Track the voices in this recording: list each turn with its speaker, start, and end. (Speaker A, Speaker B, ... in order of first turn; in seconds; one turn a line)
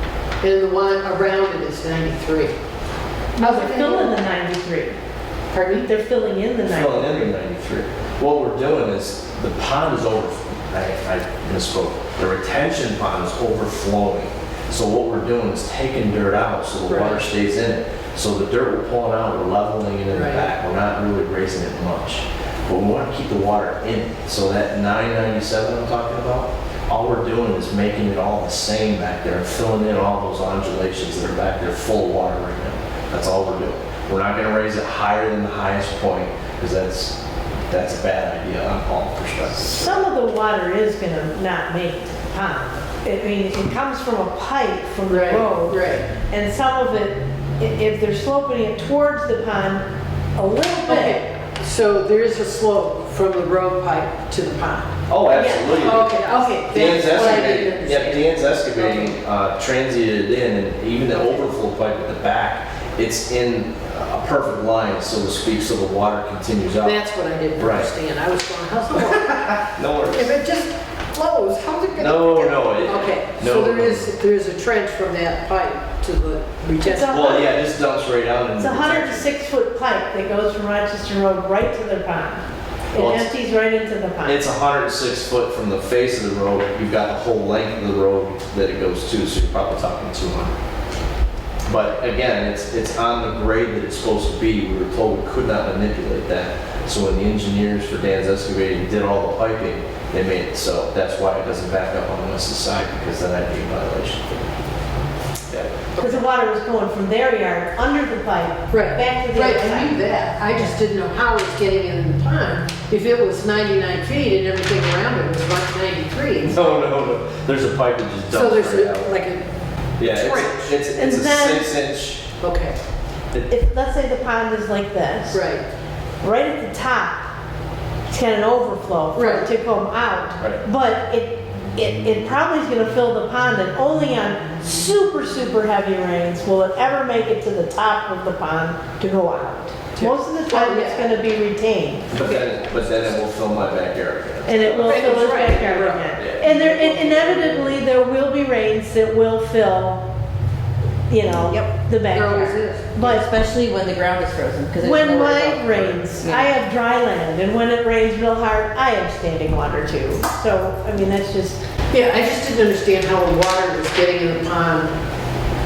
Speaker A: 0.4-2.5
Speaker B: 3.4-5.0
Speaker A: 3.4-4.2
Speaker A: 5.5-5.9
Speaker B: 5.8-7.3
Speaker C: 6.7-37.2
Speaker A: 16.9-17.2
Speaker A: 20.1-20.5
Speaker C: 37.7-40.0
Speaker B: 39.6-51.2
Speaker A: 45.1-46.1
Speaker A: 50.9-55.0
Speaker C: 55.1-56.2
Speaker B: 55.3-57.3
Speaker A: 55.8-59.1
Speaker C: 56.7-67.0
Speaker A: 66.8-77.3
Speaker C: 67.6-67.9
Speaker C: 69.0-70.3
Speaker C: 72.0-74.1
Speaker B: 76.8-77.5
Speaker C: 77.0-79.3
Speaker B: 78.6-84.4
Speaker C: 82.9-83.3
Speaker C: 84.2-90.5
Speaker C: 91.7-104.4
Speaker A: 106.0-106.2
Speaker B: 106.0-110.0
Speaker A: 108.7-116.7
Speaker C: 116.5-119.1
Speaker A: 118.3-119.5
Speaker C: 120.0-122.2
Speaker A: 120.0-120.7
Speaker B: 121.0-121.8
Speaker A: 122.4-122.8
Speaker B: 123.5-125.5
Speaker A: 125.3-125.7
Speaker B: 126.2-127.3
Speaker B: 128.1-142.2
Speaker A: 129.2-129.5
Speaker A: 140.0-141.1
Speaker C: 142.1-145.2
Speaker B: 144.5-150.1
Speaker A: 144.7-147.8
Speaker B: 151.1-153.3
Speaker D: 151.4-151.7
Speaker A: 152.1-152.9
Speaker D: 152.3-156.5
Speaker B: 154.8-161.6
Speaker A: 161.9-164.9